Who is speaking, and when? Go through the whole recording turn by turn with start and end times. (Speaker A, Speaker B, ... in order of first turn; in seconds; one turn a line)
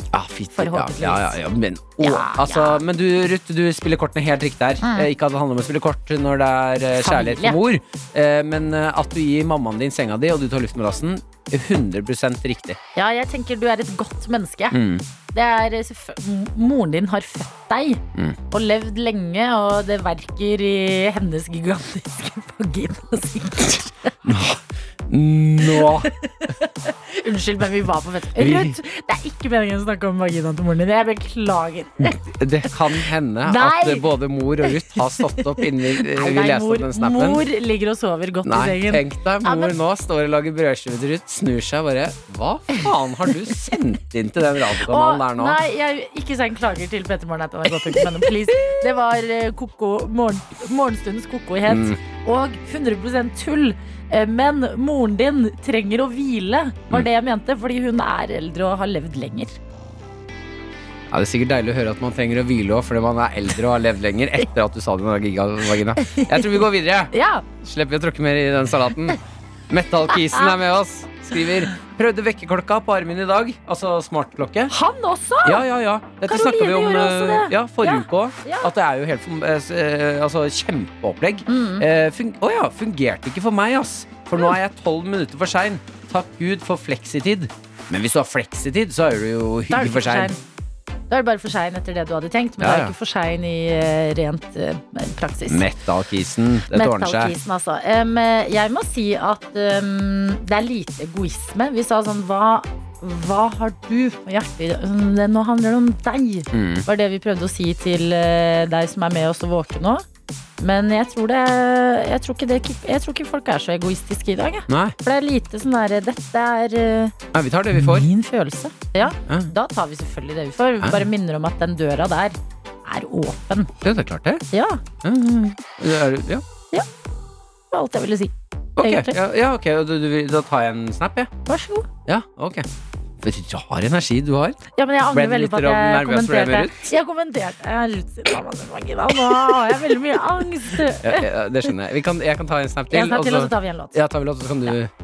Speaker A: 0.1-12.8
Speaker B: 0.6-1.4
Speaker B: 2.0-2.8
Speaker B: 4.8-5.1
Speaker B: 7.0-7.6
Speaker B: 12.9-14.8
Speaker A: 14.7-15.0
Speaker B: 15.3-24.1
Speaker A: 23.7-26.1
Speaker B: 25.6-32.2
Speaker A: 28.4-28.8
Speaker A: 32.1-37.4
Speaker B: 33.5-34.0
Speaker B: 34.7-39.7
Speaker A: 38.5-45.6
Speaker B: 44.9-59.6
Speaker A: 51.7-52.0
Speaker A: 61.1-74.7
Speaker B: 66.0-67.4
Speaker B: 70.1-70.5
Speaker B: 74.7-75.6
Speaker A: 75.4-90.3
Speaker B: 76.2-78.7
Speaker B: 81.5-81.8
Speaker B: 89.7-90.4
Speaker B: 91.1-95.6
Speaker A: 92.6-92.9
Speaker A: 95.5-97.3
Speaker B: 96.7-110.0
Speaker A: 106.5-106.8
Speaker B: 110.6-117.2
Speaker A: 114.7-114.9
Speaker A: 117.3-118.1
Speaker B: 117.7-123.7
Speaker A: 119.3-119.5
Speaker A: 123.8-124.4
Speaker B: 124.5-124.8
Speaker A: 125.0-126.4
Speaker B: 127.7-129.2
Speaker A: 128.8-131.3
Speaker B: 131.5-131.9
Speaker A: 132.1-132.7
Speaker A: 133.2-134.6
Speaker B: 134.8-141.3
Speaker A: 135.1-136.8
Speaker A: 141.0-144.9
Speaker B: 142.9-144.0